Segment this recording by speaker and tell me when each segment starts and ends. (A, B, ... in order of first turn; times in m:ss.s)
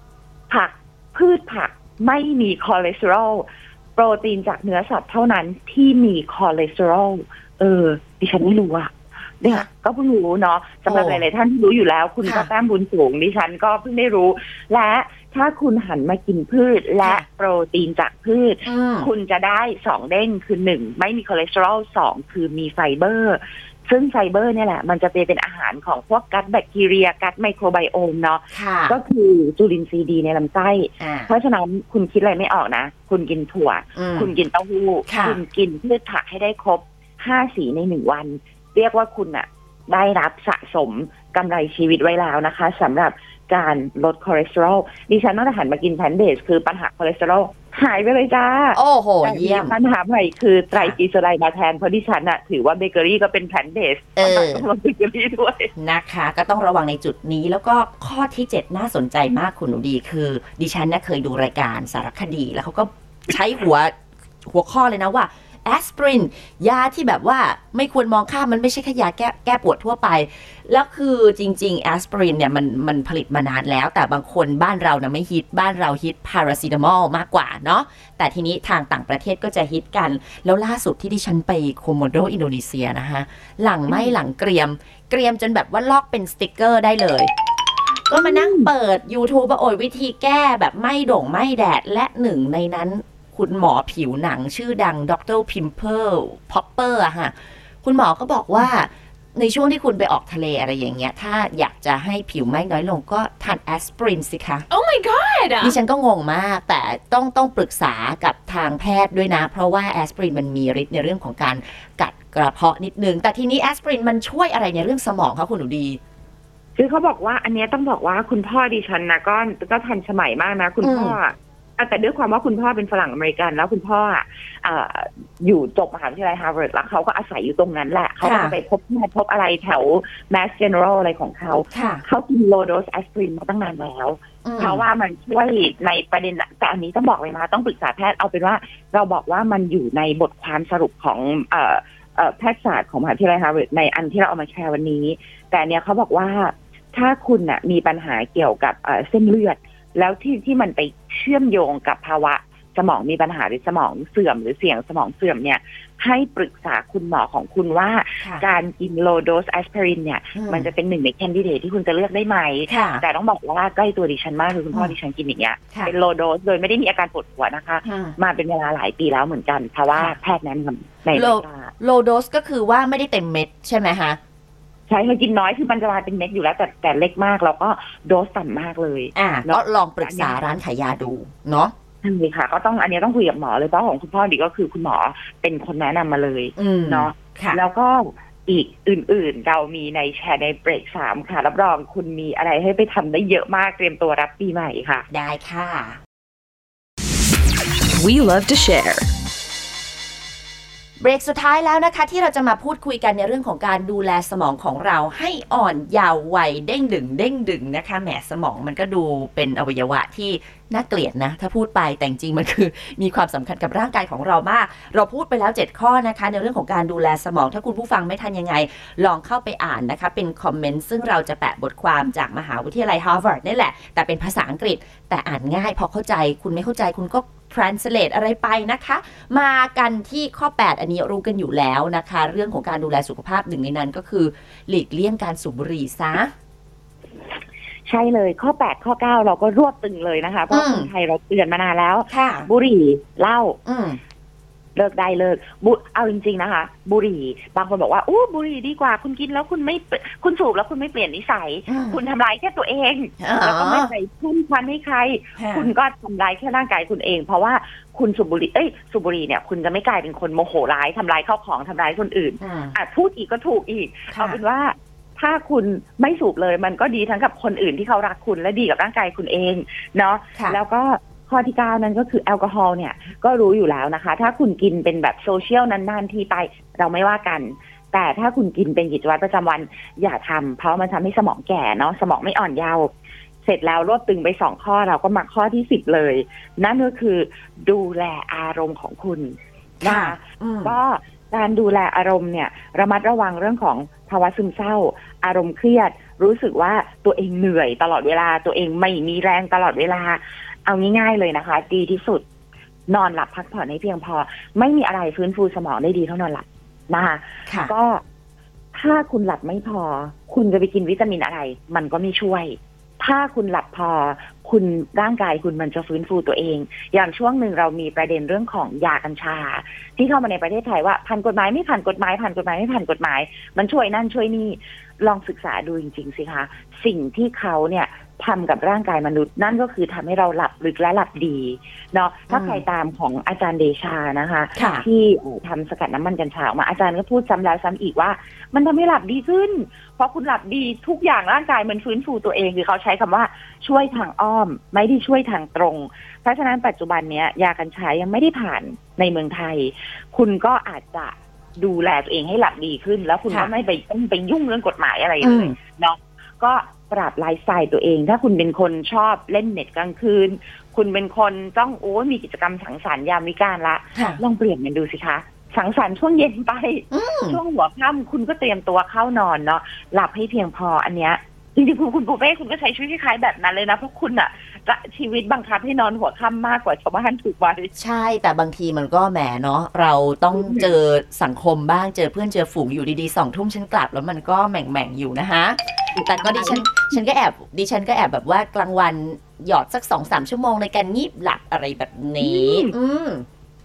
0:00.5-0:55.7 A
0:10.9-0:11.2 B
0:12.2-0:12.5 B
0:18.6-0:19.1 B
0:28.5-0:29.0 B
0:31.0-0:31.3 B
0:34.0-0:34.3 B
0:35.1-0:35.4 B
0:48.7-0:49.7 B
0:54.2-0:54.6 B
0:55.8-1:03.9 B
1:04.5-1:27.3 B
1:23.9-1:24.2 A
1:28.1-1:37.3 B
1:28.1-1:28.7 A
1:37.8-1:44.7 B
1:44.7-1:45.8 C
1:45.6-1:56.0 B
1:56.8-2:51.7 A
2:00.8-2:01.2 B
2:08.2-2:08.6 B
2:11.7-2:12.0 B
2:14.4-2:14.8 B
2:40.4-2:40.7 B
2:42.7-2:43.0 B
2:47.8-2:48.2 B
2:49.9-2:50.2 B
2:51.1-2:54.2 B
2:54.9-3:00.4 A
2:59.2-3:01.7 B
3:02.0-3:15.1 A
3:06.6-3:07.6 B
3:15.1-3:16.0 B
3:18.0-3:19.1 C
3:21.0-3:56.3 B
3:57.9-4:03.6 A
4:00.5-4:00.9 B
4:02.1-4:02.5 B
4:03.7-4:04.0 B
4:04.8-4:42.9 A
4:11.7-4:12.0 B
4:13.2-4:13.9 B
4:15.4-4:15.7 B
4:22.4-4:22.7 B
4:24.1-4:24.4 B
4:43.4-5:02.2 A
4:49.8-4:50.8 B
5:02.9-5:08.0 A
5:08.7-6:17.7 A
5:32.3-5:32.6 B
5:34.6-5:34.8 B
5:55.2-5:55.6 B
6:04.0-6:04.2 B
6:06.9-6:07.4 B
6:17.8-6:33.2 B
6:20.3-6:20.7 A
6:26.0-6:26.8 A
6:32.2-6:32.7 A